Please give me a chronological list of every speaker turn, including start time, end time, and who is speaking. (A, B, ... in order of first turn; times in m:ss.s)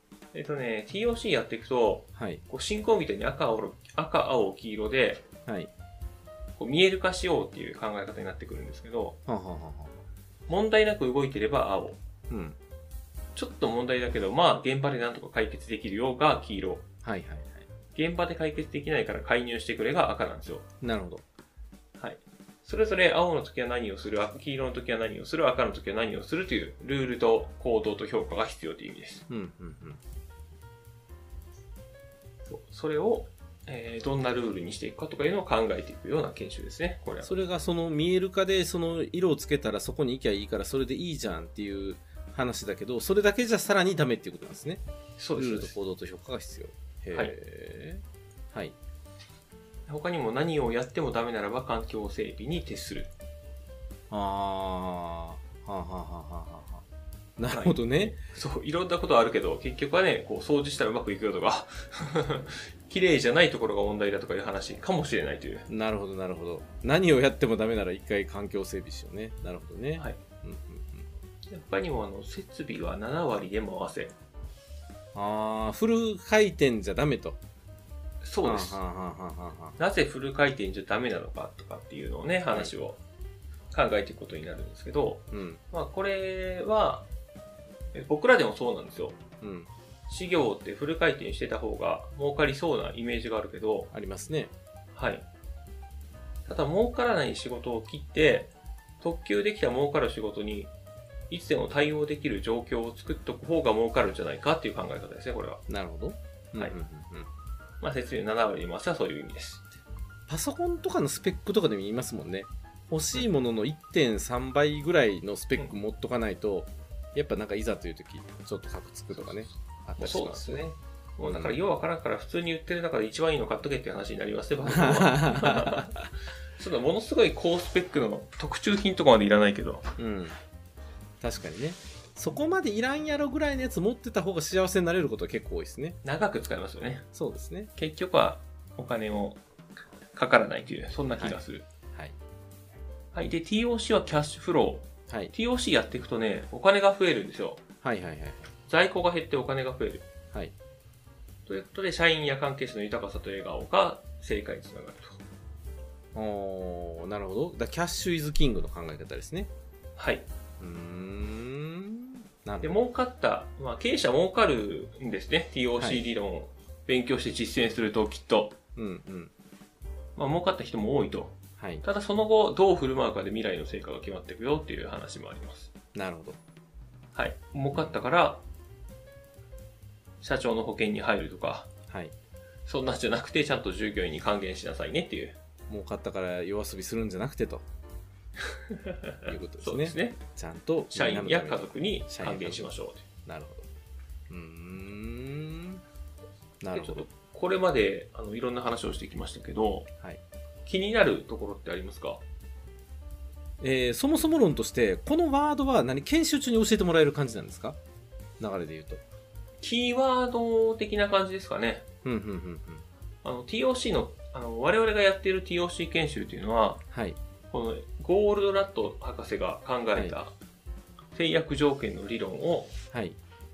0:00.3-0:05.2 A
0:02.2-0:02.4 B
0:06.6-0:09.2 A
0:09.2-0:10.0 B
0:10.5-0:12.0 A
0:12.3-0:12.6 B
0:13.4-0:16.8 A
0:17.0-0:17.6 B
0:17.9-0:20.6 A
0:20.8-0:21.2 B
0:22.0-0:29.2 A
0:29.3-0:30.0 B
0:32.5-0:37.3 A
0:37.2-0:44.8 B
0:45.2-0:45.7 A
0:45.4-0:48.8 B
0:49.9-0:53.1 A
0:54.1-0:56.8 B
0:57.4-0:58.2 B
0:57.5-1:05.6 A
1:05.7-1:11.1 B
1:11.5-1:14.1 A
1:15.1-1:17.4 B
1:18.2-1:18.8 A
1:18.4-1:19.8 B
1:19.8-1:23.0 A
1:23.7-1:27.1 A
1:25.3-1:25.6 B
1:27.9-1:29.2 A
1:29.4-1:29.7 B
1:30.1-1:33.9 A
1:33.9-1:34.5 B
1:34.9-1:35.2 A
1:36.5-1:40.7 A
1:41.3-1:45.6 A
1:45.7-1:47.3 B
1:47.8-1:49.7 A
1:50.3-2:00.6 B
1:59.1-1:59.4 A
2:00.0-2:05.9 A
2:01.2-2:01.6 B
2:04.6-2:06.1 B
2:06.6-2:09.8 A
2:10.0-2:10.4 B
2:11.2-2:16.0 B
2:16.0-2:17.1 A
2:17.1-2:17.7 B
2:17.8-2:19.4 A
2:20.1-2:21.6 A
2:21.2-2:22.2 B
2:23.1-2:27.6 A
2:27.8-2:28.5 B
2:28.7-2:30.0 A
2:31.5-2:35.2 A
2:36.1-2:39.5 B
2:40.0-2:40.3 A
2:40.6-2:42.8 B
2:42.6-2:48.5 A
2:48.8-2:49.3 B
2:50.2-2:55.7 A
2:51.6-2:51.8 B
2:55.9-2:56.4 B
2:57.1-2:58.4 A
3:00.2-3:01.7 A
3:01.9-3:02.1 B
3:02.7-3:05.4 A
3:05.7-3:07.6 B
3:08.5-3:10.2 A
3:09.2-3:12.7 B
3:10.9-3:13.0 A
3:13.2-3:13.7 B
3:14.3-3:15.8 B
3:16.6-3:17.1 B
3:16.7-3:19.9 A
3:20.6-3:22.2 A
3:23.6-3:27.8 B
3:28.4-3:29.0 B
3:29.6-3:31.8 A
3:32.0-3:32.8 B
3:33.2-3:36.8 A
3:36.9-3:37.2 B
3:37.5-3:40.3 A
3:41.1-3:42.7 A
3:42.9-3:43.2 B